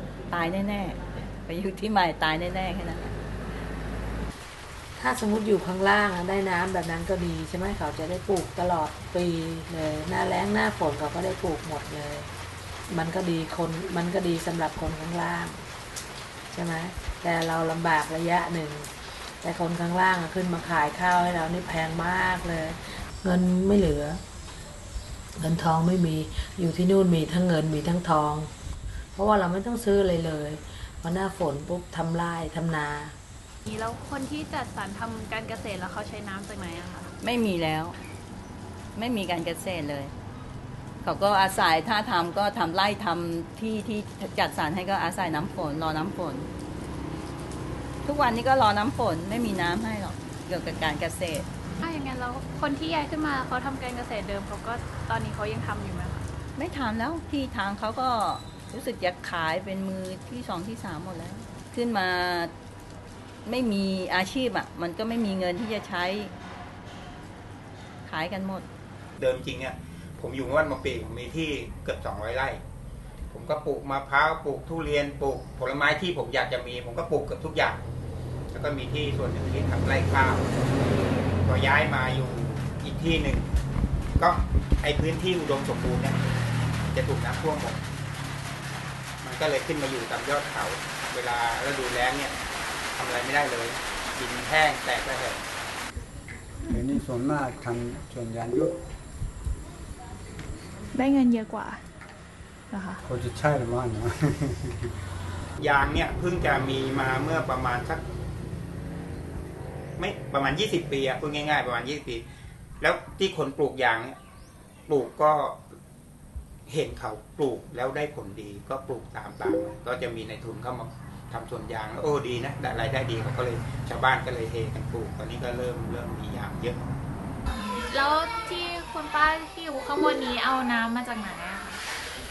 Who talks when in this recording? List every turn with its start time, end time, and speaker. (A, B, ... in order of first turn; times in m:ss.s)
0:00.3-0:03.1 A
0:05.0-0:12.3 B
0:12.9-0:15.6 B
0:16.5-0:24.2 B
0:25.4-0:28.5 B
0:29.1-0:33.1 B
0:33.7-0:37.0 C
0:37.2-0:37.9 A
0:39.0-0:40.1 A
0:41.0-0:46.5 A
0:48.0-0:51.5 A
0:51.8-0:56.2 C
0:56.6-1:02.5 A
1:03.4-1:06.3 A
1:08.0-1:08.6 A
1:09.2-1:12.6 D
1:13.3-1:17.8 D
1:18.5-1:20.5 D
1:21.4-1:23.5 D
1:24.2-1:26.2 D
1:26.9-1:27.8 D
1:29.2-1:32.3 D
1:32.9-1:35.4 D
1:36.7-1:38.7 E
1:40.9-1:41.8 C
1:42.7-1:43.0 C
1:43.0-1:44.8 E
1:45.6-1:48.0 D
1:50.0-1:52.2 D
1:52.8-1:54.2 D
1:54.9-1:55.6 D
1:56.7-2:06.8 D
2:07.6-2:11.8 C